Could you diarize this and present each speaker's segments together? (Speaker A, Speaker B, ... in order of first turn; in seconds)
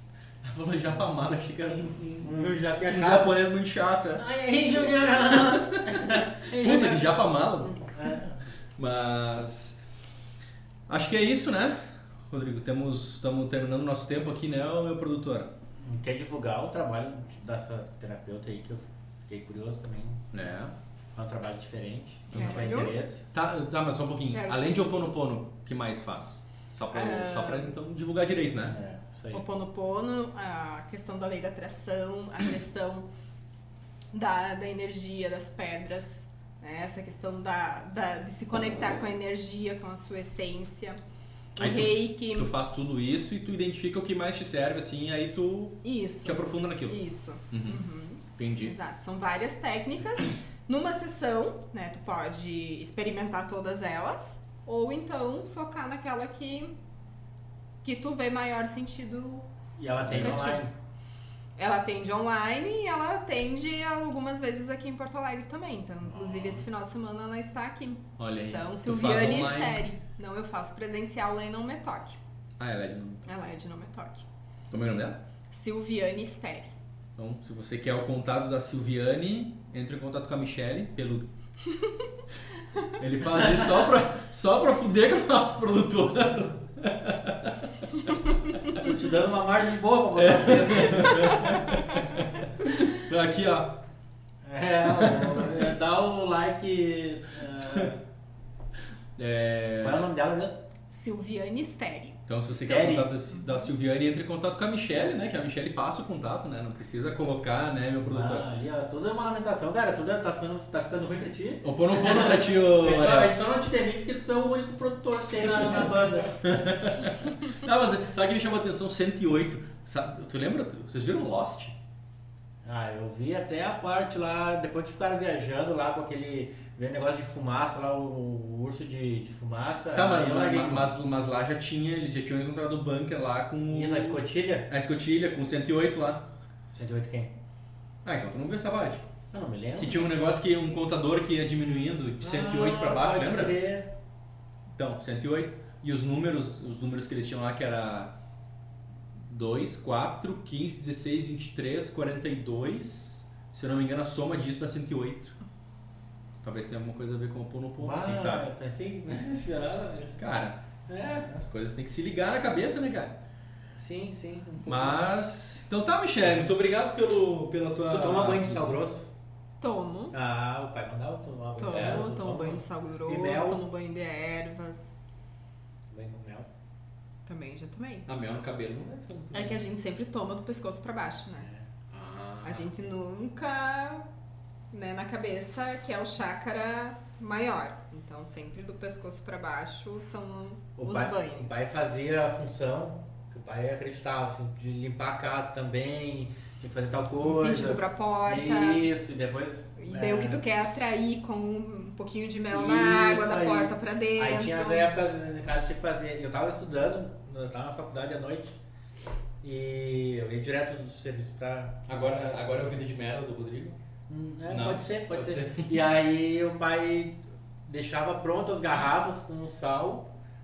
Speaker A: 0.4-2.4, 2.9-4.3, 5.0-7.9, 8.8-9.8, 10.9-11.8, 12.3-15.5, 20.3-20.7, 22.3-28.8, 41.6-47.0, 47.5-47.8, 48.4-48.8, 60.1-60.4, 68.2-69.8, 72.6-73.3, 74.7-75.2, 77.2-81.3, 83.0-88.1, 90.2-93.8, 95.0-95.5, 99.2-100.1, 102.3-108.5, 111.6-113.4, 116.4-121.8, 129.9-136.3, 138.0-139.1, 139.8-143.6, 144.7-148.1, 149.2-155.4, 156.4-158.5, 160.2-163.2, 164.7-168.8, 171.7-172.1, 178.1-179.2, 181.9-182.7, 211.8-213.8, 214.5-215.8
Speaker B: 2.2-3.4, 4.2-8.5, 15.8-20.2, 21.1-23.2, 28.7-29.4, 59.8-60.7, 66.1-66.6, 88.7-91.7, 94.4-98.0, 99.8-100.6, 102.7-103.1, 108.0-116.5, 122.6-130.9, 133.7-134.7, 136.7-137.3, 139.3-140.0, 142.2-143.9, 157.8-160.2, 160.9-161.4, 163.8-165.1, 167.9-169.1, 170.1-173.6, 175.9-176.5, 179.1-179.6, 181.4-181.7, 190.8-200.4, 202.5-208.6, 209.4-211.9, 214.1-220.1
Speaker C: 22.3-22.9, 24.3-25.1, 26.9-27.8, 29.3-33.1, 34.1-41.0, 41.6-42.5, 45.8-56.8, 57.8-59.5, 60.1-60.6, 61.6-72.2, 73.3-74.2, 75.5-76.7, 100.9-102.2, 169.6-170.1, 171.6-175.0, 177.3-178.1, 179.3-181.5, 182.4-184.1, 184.7-191.9, 197.2-198.9, 199.8-204.9